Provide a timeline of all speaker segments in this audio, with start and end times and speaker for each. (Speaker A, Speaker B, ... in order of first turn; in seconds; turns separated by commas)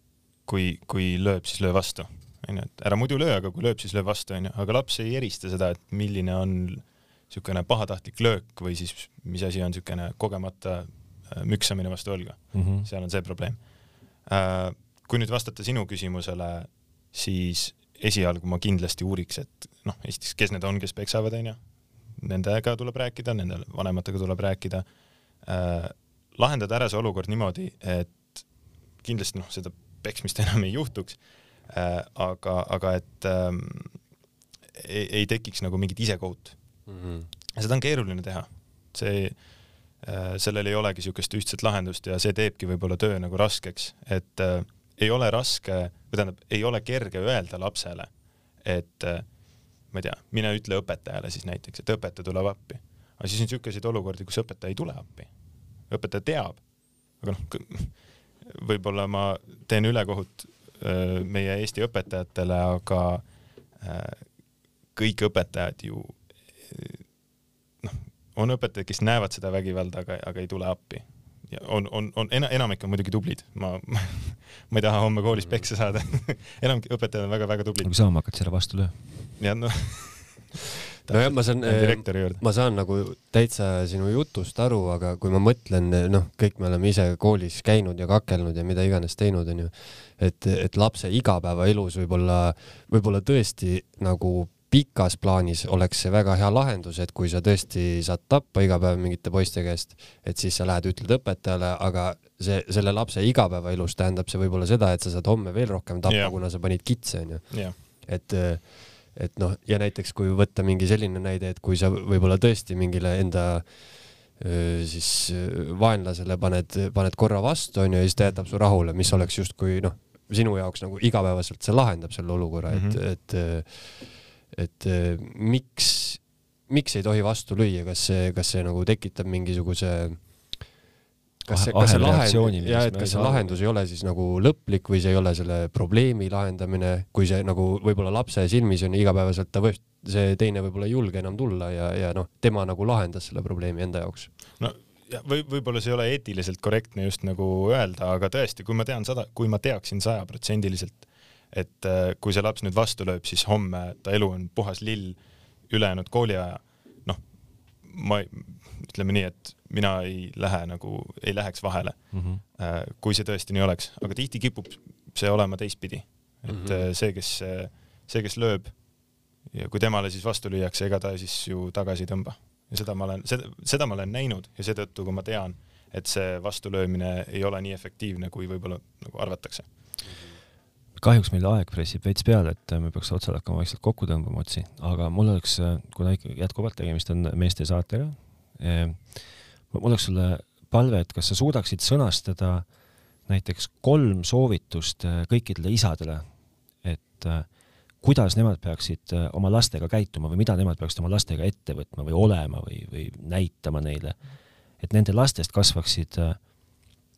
Speaker A: 0.4-13.6, Speaker B: 12.5-12.9, Speaker A: 14.2-21.6, Speaker A: 22.2-24.8, Speaker A: 25.4-28.4, Speaker A: 29.0-34.0, Speaker A: 34.8-36.5, Speaker C: 36.9-37.3, Speaker A: 37.5-39.4, Speaker A: 40.0-48.1, Speaker A: 48.6-49.2, Speaker A: 49.9-55.3, Speaker A: 55.9-56.6, Speaker A: 57.2-63.2, Speaker A: 63.8-64.2, Speaker A: 64.9-67.0, Speaker A: 67.8-77.9, Speaker B: 77.8-79.2, Speaker A: 79.4-82.4, Speaker C: 81.1-130.8, Speaker A: 106.1-106.4, Speaker A: 107.5-107.8, Speaker A: 122.7-123.0, Speaker B: 131.5-133.6, Speaker C: 131.5-144.3, Speaker A: 144.6-155.2, Speaker A: 155.7-157.2, Speaker A: 157.8-168.7, Speaker B: 162.1-162.4, Speaker C: 166.5-166.8, Speaker A: 169.5-179.7, Speaker C: 180.1-180.3, Speaker B: 180.9-192.7, Speaker B: 193.2-206.5